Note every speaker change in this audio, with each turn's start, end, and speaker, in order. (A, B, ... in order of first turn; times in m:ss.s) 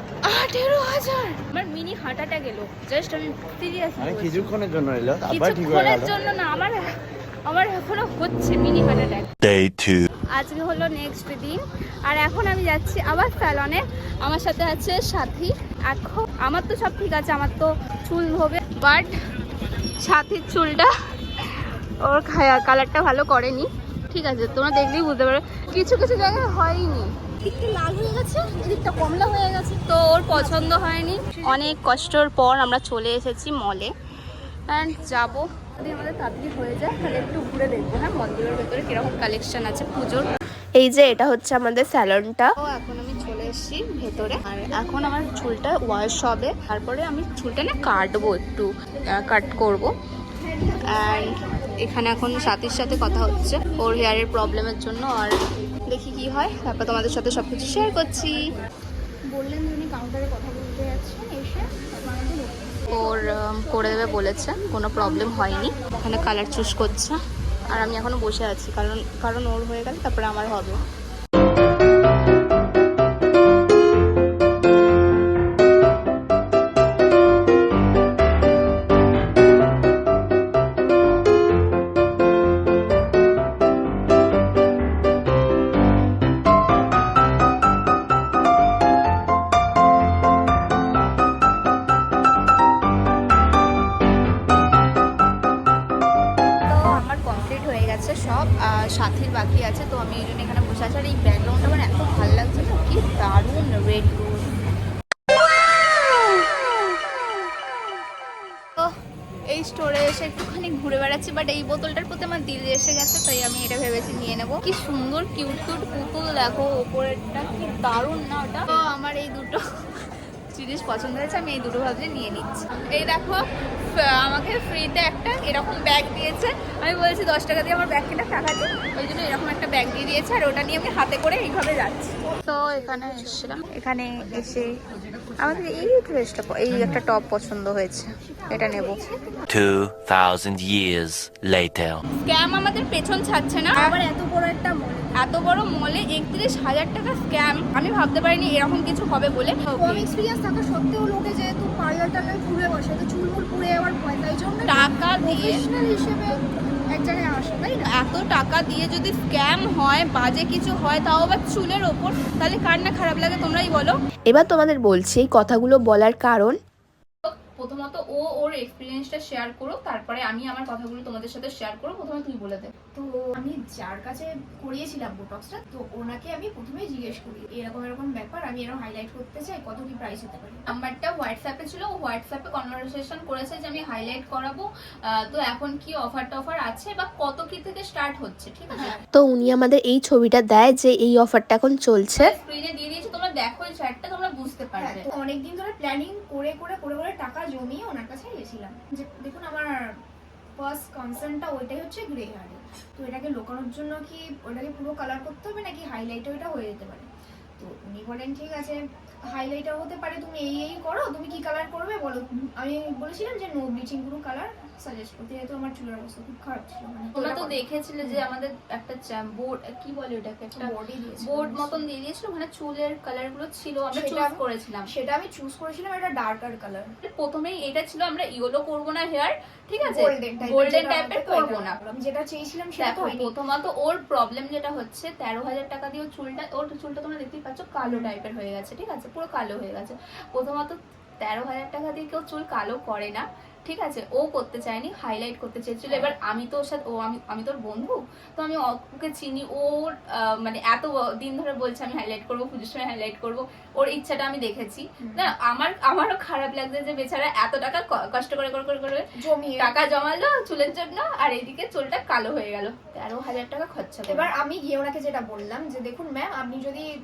0:00.2-0:04.5 A
0:04.0-0:06.1 B
0:05.3-0:06.8 A
0:07.5-0:09.3 A
0:09.4-0:10.1 C
0:10.3-0:19.1 A
0:20.0-0:20.9 A
0:22.0-0:33.9 A
0:31.3-0:31.8 D
0:34.7-0:40.3 A
0:40.8-0:42.5 E
0:42.6-0:49.9 A
0:50.4-0:54.2 D
0:50.9-0:55.4 A
0:55.9-0:58.4 A
0:59.3-1:03.1 D
1:02.9-1:07.2 A
1:07.7-1:10.8 A
1:36.7-1:44.5 A
1:49.5-1:59.6 A
2:00.5-2:14.7 A
2:15.4-2:19.0 A
2:18.2-2:19.5 D
2:19.5-2:22.0 C
2:22.2-2:23.9 A
2:23.8-2:25.2 D
2:25.2-2:30.1 A
2:29.7-2:36.4 D
2:34.7-2:35.6 A
2:36.9-2:37.8 D
2:37.8-2:44.0 A
2:44.3-2:46.6 E
2:47.3-2:52.7 A
2:53.0-3:00.6 D
3:00.7-3:08.9 A
3:08.7-3:09.0 D
3:09.1-3:12.4 E
3:12.1-3:15.0 A
3:14.8-3:19.7 D
3:20.6-3:28.8 D
3:29.3-3:38.2 D
3:37.2-3:40.7 A
3:40.6-3:41.8 D
3:41.2-3:44.9 A
3:43.9-3:46.9 D
3:47.0-3:51.7 A
3:49.8-3:53.3 D
3:52.8-4:19.0 A
3:57.8-3:58.1 D
4:15.0-4:15.3 D
4:19.2-4:19.7 D
4:19.6-4:24.3 A
4:24.1-4:26.9 D